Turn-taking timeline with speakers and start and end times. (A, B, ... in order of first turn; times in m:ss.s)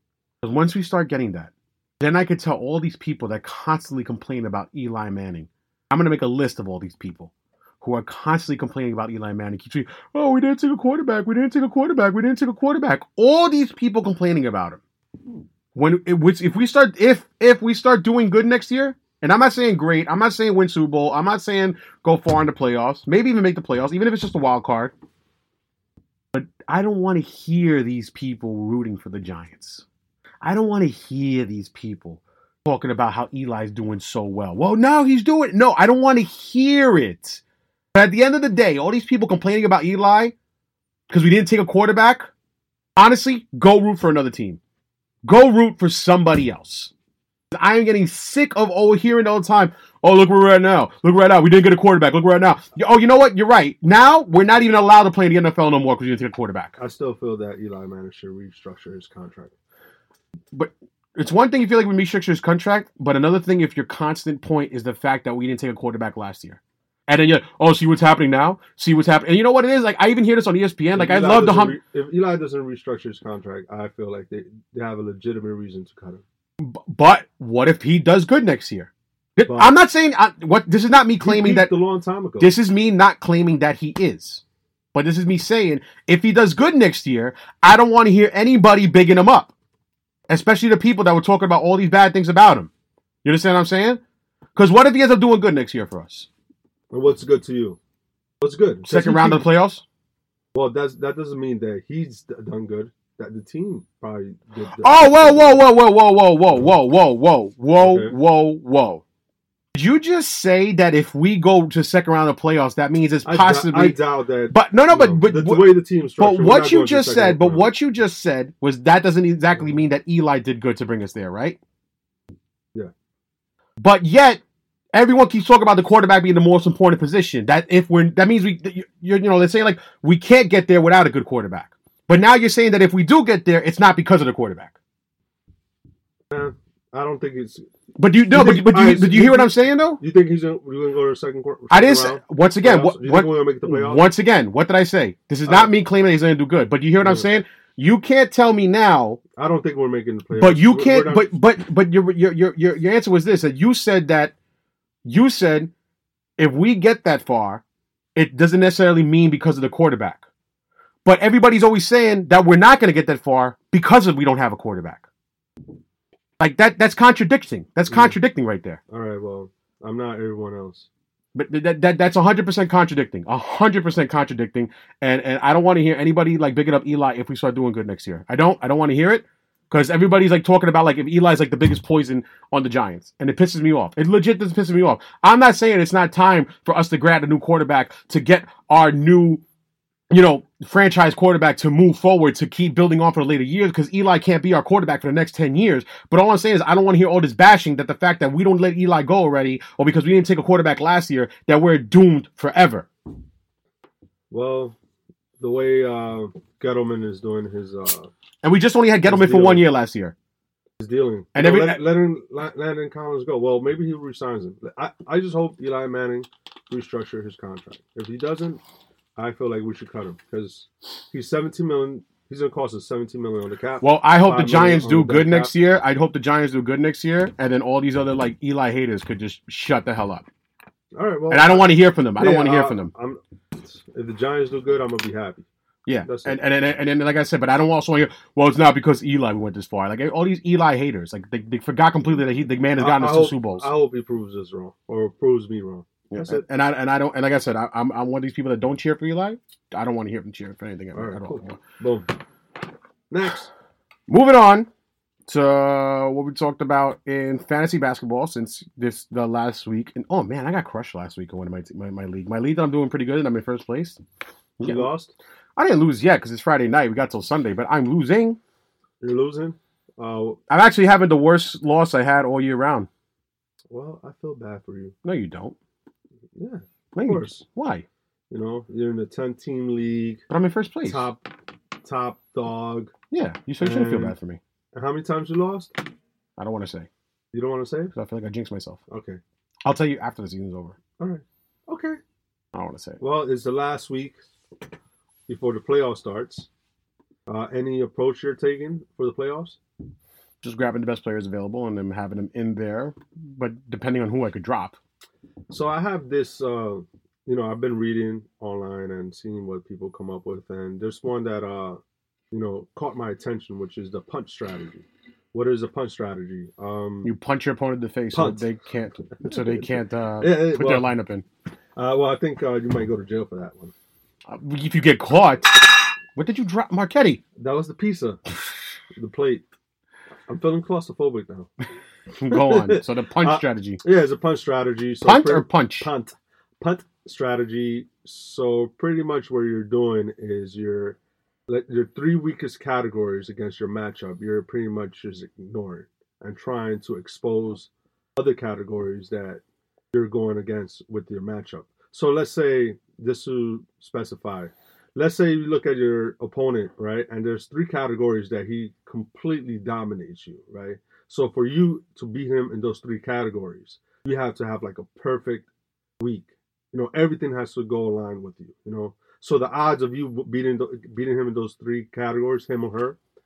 0:00.4-0:14.8 A
0:15.7-0:24.9 A
0:26.3-0:29.8 A
0:30.4-0:37.4 A
0:37.9-0:40.3 A
0:41.1-0:42.3 A
0:43.0-0:44.6 A
0:45.2-0:46.9 A
0:47.5-0:56.7 A
0:56.8-0:59.5 B
1:00.5-1:11.8 A
1:10.9-1:16.2 B
1:16.6-1:21.7 A
1:19.5-1:19.7 B
1:21.2-1:22.5 B
1:22.4-1:24.4 A
1:24.9-1:29.5 A
1:30.3-1:32.7 A
1:33.2-1:34.0 A
1:34.6-1:36.3 A
1:36.9-1:37.8 B
1:38.4-1:39.4 B
1:38.8-1:39.8 A
1:40.5-1:45.6 B
1:44.8-1:49.0 A
1:47.8-1:48.1 B
1:49.7-2:01.6 A
1:53.2-1:57.7 B
2:03.8-2:04.4 A
2:04.9-2:14.7 A
2:16.3-2:17.6 B
2:18.0-2:20.0 A
2:18.3-2:24.0 B
2:21.7-2:29.2 A
2:25.4-2:25.7 B
2:27.0-2:27.3 B
2:29.4-2:31.3 B
2:30.3-2:34.3 A
2:35.0-2:35.7 A
2:36.4-2:37.6 A
2:38.2-2:40.2 A
2:41.0-2:45.0 A
2:46.4-2:48.8 A
2:47.9-2:48.2 B
2:48.9-2:50.9 B
2:51.3-3:09.4 A
3:10.1-3:22.9 A
3:24.3-3:24.8 B
3:25.4-3:28.1 B
3:28.4-3:30.1 A
3:29.0-3:29.6 B
3:30.8-3:38.6 B
3:31.3-3:31.8 A
3:39.2-3:45.5 B
3:43.8-3:50.2 A
3:50.9-3:55.4 B
3:51.3-3:52.9 A
3:55.8-4:03.7 A
3:56.0-3:56.4 B
4:02.8-4:06.4 B
4:06.1-4:11.6 A
4:10.9-4:12.1 B
4:13.1-4:13.5 B
4:14.1-4:14.7 A
4:15.3-4:24.0 A
4:24.6-4:24.9 A
4:24.6-4:25.1 B
4:25.6-4:28.4 A
4:29.0-4:30.4 B
4:30.5-4:32.9 A
4:33.7-4:34.9 B
4:35.0-4:35.6 A
4:36.3-4:37.4 B
4:36.9-4:37.8 A
4:38.3-4:40.2 B
4:40.3-4:41.1 A
4:40.8-4:42.9 B
4:43.1-4:44.4 A
4:43.6-4:44.1 B
4:44.7-4:45.8 B
4:46.4-4:46.9 A
4:47.3-4:47.9 B
4:47.9-4:48.8 A
4:48.9-4:49.2 B
4:49.6-4:50.8 A
4:51.0-4:52.0 B
4:52.5-4:53.0 A
4:53.0-4:54.2 B
4:55.3-4:56.5 B
4:57.3-4:59.6 B
5:00.4-5:04.8 A
5:05.5-5:11.8 B
5:12.3-5:17.1 B
5:17.0-5:21.2 A
5:18.1-5:18.4 B
5:19.2-5:20.9 B
5:21.8-5:23.7 B
5:24.3-5:27.2 A
5:27.4-5:28.2 B
5:28.9-5:29.4 B
5:30.3-5:31.5 B
5:32.2-5:33.8 A
5:32.3-5:49.4 B
5:35.0-5:35.9 A
5:49.9-6:05.5 B
6:06.0-6:13.0 B